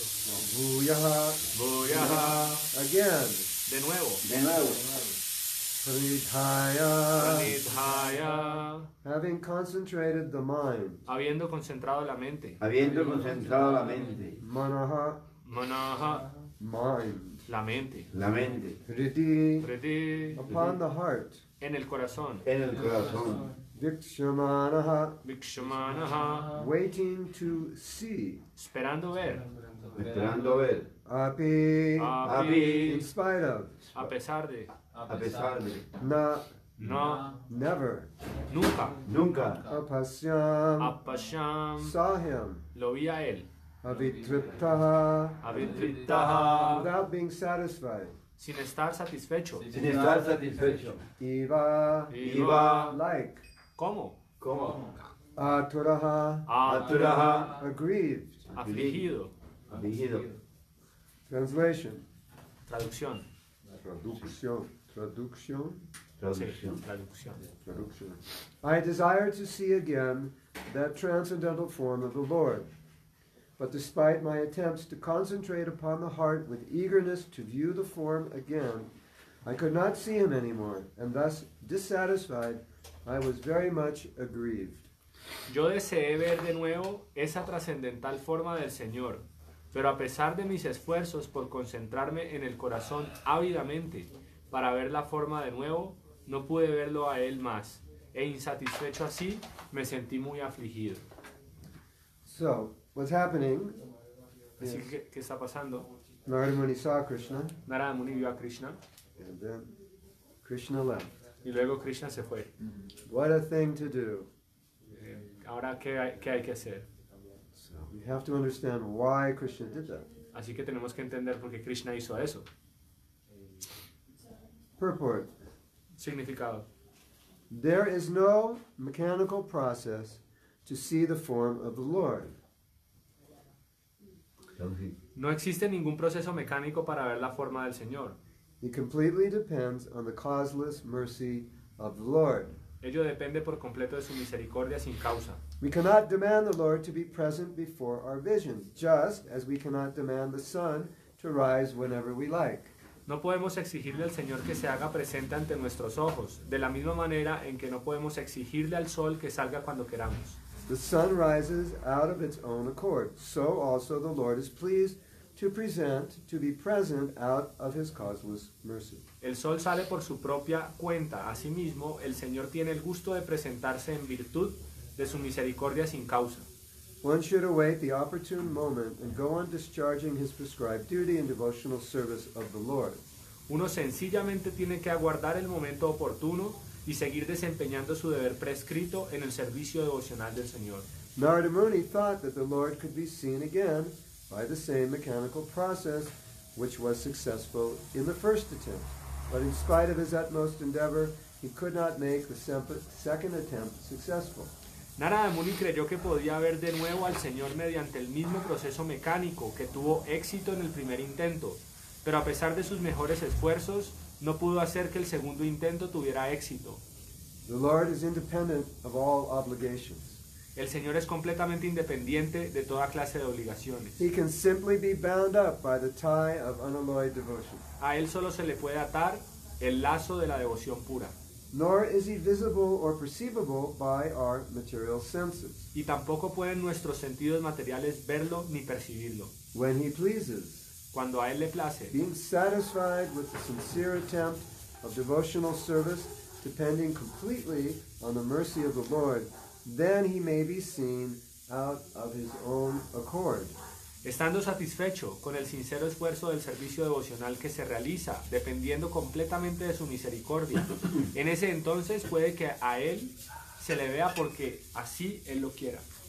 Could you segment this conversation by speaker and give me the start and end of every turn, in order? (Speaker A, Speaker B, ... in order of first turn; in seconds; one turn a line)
Speaker A: 0.4-1.5
Speaker B: 1.5-2.7
Speaker C: 1.9-2.4
Speaker A: 2.7-3.5
Speaker B: 3.7-4.2
Speaker C: 4.2-5.2
Speaker A: 5.8-7.6
Speaker B: 7.2-8.9
Speaker A: 9.0-11.0
Speaker B: 11.1-12.6
Speaker C: 12.6-14.4
Speaker A: 14.4-15.2
Speaker B: 15.4-16.3
Speaker A: 16.6-17.4
Speaker B: 17.5-18.1
Speaker C: 18.1-18.8
Speaker A: 18.9-19.7
Speaker B: 19.6-20.4
Speaker A: 20.4-21.4
Speaker C: 20.5-20.8
Speaker B: 21.6-22.5
Speaker C: 22.4-23.5
Speaker A: 23.7-25.2
Speaker B: 25.2-26.6
Speaker A: 26.5-28.4
Speaker B: 28.6-29.9
Speaker C: 29.9-30.9
Speaker A: 31.1-34.1
Speaker B: 32.0-33.1
Speaker C: 32.2-33.0
Speaker B: 33.9-34.7
Speaker C: 35.0-35.9
Speaker A: 36.0-36.5
Speaker B: 36.8-37.4
Speaker A: 37.4-38.1
Speaker B: 38.5-39.0
Speaker C: 39.0-39.7
Speaker A: 39.7-41.0
Speaker B: 40.8-42.0
Speaker A: 41.8-42.7
Speaker B: 42.8-43.5
Speaker A: 43.8-45.7
Speaker B: 45.4-46.9
Speaker C: 45.5-46.7
Speaker A: 46.6-48.2
Speaker B: 48.4-49.7
Speaker C: 49.7-51.0
Speaker A: 51.2-53.4
Speaker B: 52.1-53.0
Speaker C: 52.2-53.0
Speaker B: 53.8-54.2
Speaker C: 54.4-54.9
Speaker A: 55.4-58.5
Speaker B: 56.5-57.5
Speaker C: 56.6-57.6
Speaker B: 58.5-59.3
Speaker C: 58.6-59.1
Speaker C: 59.7-60.4
Speaker A: 61.3-62.0
Speaker B: 62.7-63.2
Speaker C: 63.7-64.1
Speaker A: 64.0-65.9
Speaker C: 66.2-66.8
Speaker B: 66.3-67.4
Speaker C: 67.4-67.9
Speaker A: 67.8-72.7
Speaker A: 73.6-78.9
Speaker A: 79.5-84.9
Speaker B: 85.5-101.0
Speaker A: 102.2-103.8
Speaker B: 104.6-105.9
Speaker A: 104.6-104.9
Speaker A: 106.3-107.6
Speaker B: 107.7-108.8
Speaker A: 109.2-109.8
Speaker A: 110.4-111.1
Speaker B: 111.4-112.5
Speaker A: 113.0-114.3
Speaker B: 114.9-116.9
Speaker A: 117.5-120.1
Speaker B: 120.3-122.5
Speaker A: 124.8-125.3
Speaker B: 126.0-126.7
Speaker A: 127.5-132.4
Speaker C: 134.6-135.0
Speaker B: 135.2-138.2
Speaker A: 138.6-142.6
Speaker B: 142.8-145.4
Speaker A: 145.6-152.7
Speaker B: 153.1-160.4
Speaker A: 160.7-169.1
Speaker B: 169.2-176.5
Speaker A: 177.0-183.0
Speaker B: 183.5-190.9
Speaker A: 191.2-204.5
Speaker B: 205.0-216.8
Speaker A: 217.5-220.2
Speaker B: 220.6-224.0
Speaker A: 224.0-227.7
Speaker B: 227.8-231.2
Speaker A: 231.5-235.7
Speaker B: 235.7-239.3
Speaker A: 239.5-240.7
Speaker B: 240.9-242.0
Speaker A: 241.9-253.6
Speaker B: 254.0-265.9